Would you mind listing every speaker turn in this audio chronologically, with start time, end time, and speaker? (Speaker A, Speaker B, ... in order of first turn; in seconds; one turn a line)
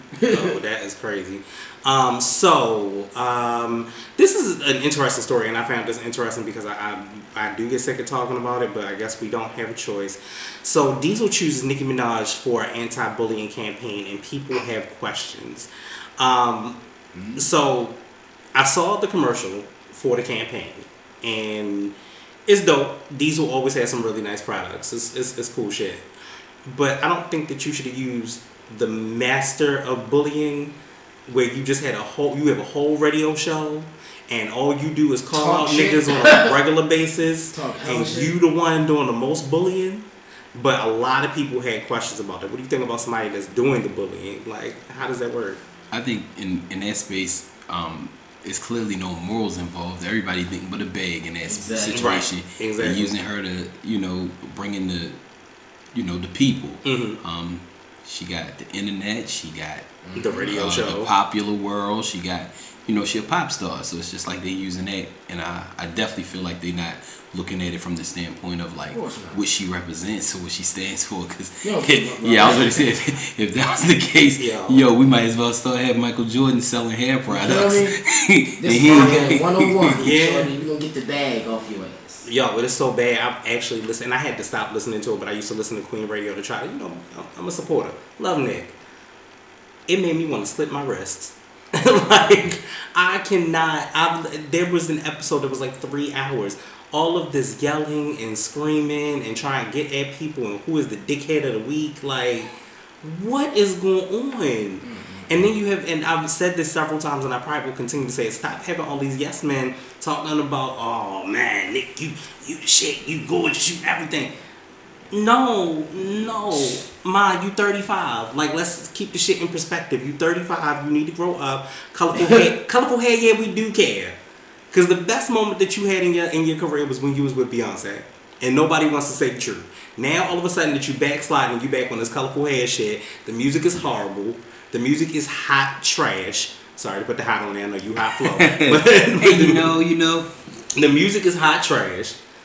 Speaker A: 0.2-0.5
Speaker B: 0.3-16.8
Speaker A: 17.1-17.4
Speaker B: 17.4-17.9
Speaker B: 18.5-21.9
Speaker B: 22.5-26.0
Speaker B: 26.6-30.7
Speaker B: 31.3-45.6
Speaker A: 35.3-36.5
Speaker A: 37.5-38.3
Speaker C: 45.9-55.2
Speaker A: 51.5-52.2
Speaker B: 51.9-53.1
Speaker C: 55.9-59.9
Speaker B: 56.8-57.2
Speaker A: 60.0-60.5
Speaker B: 60.1-61.1
Speaker C: 60.5-80.1
Speaker A: 68.9-69.4
Speaker A: 71.6-72.9
Speaker B: 74.4-74.9
Speaker A: 77.3-77.9
Speaker A: 78.6-82.2
Speaker B: 78.9-79.2
Speaker B: 80.0-80.5
Speaker B: 82.2-88.7
Speaker B: 89.9-102.5
Speaker B: 103.0-114.3
Speaker A: 104.8-105.2
Speaker B: 115.1-124.2
Speaker A: 122.2-122.4
Speaker B: 124.7-139.7
Speaker C: 138.1-140.3
Speaker B: 140.7-142.2